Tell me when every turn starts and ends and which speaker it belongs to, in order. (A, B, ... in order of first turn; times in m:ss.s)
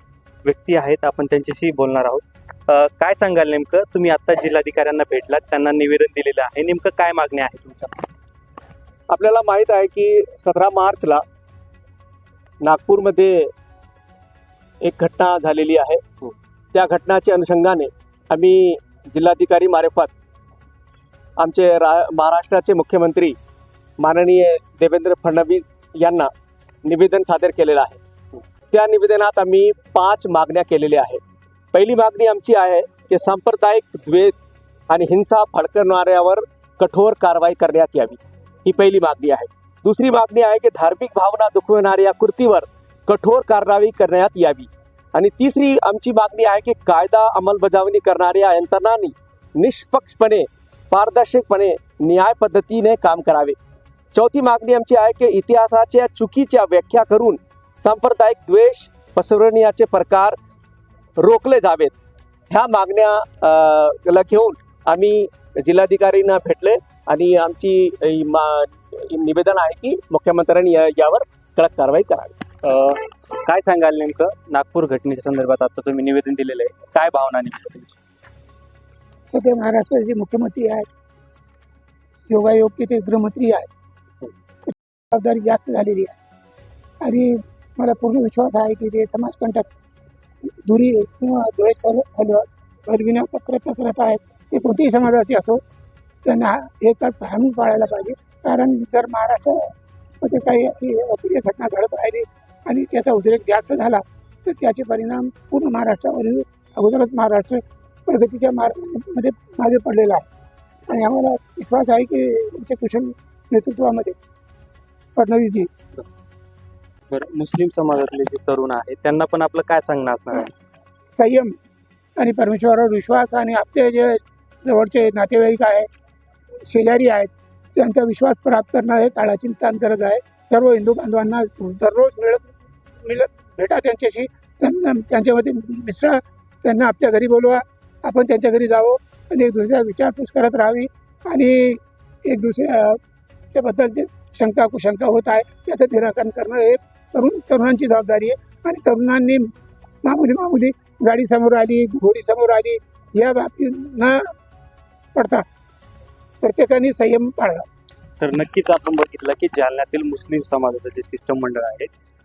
0:00.4-0:08.0 A
0:09.1-0:11.2 B
0:12.6-0:13.5 B
0:14.8-0:16.0 B
0:16.7-0:20.1 B
0:21.4-0:23.4 B
0:24.0-0:26.3 B
0:26.8-0:28.0 B
0:28.7-0:31.2 B
0:31.7-0:34.4 B
0:34.9-0:53.6 B
0:54.1-1:00.4 B
1:01.2-1:02.0 B
1:02.5-1:12.4 B
1:12.6-1:18.0 A
1:19.3-1:20.9 C
1:22.3-1:23.7 C
1:24.6-1:26.2 C
1:27.0-1:29.7 C
1:30.6-1:35.6 C
1:36.2-1:50.3 C
1:50.9-1:54.2 C
1:55.2-1:55.7 C
1:57.1-2:00.5 A
2:01.1-2:01.5 C
2:02.2-2:05.9 C
2:06.7-2:23.0 C
2:23.5-2:29.5 C
2:30.0-2:34.2 C
2:35.2-2:35.4 C
2:36.4-2:37.7 C
2:38.2-2:41.9 A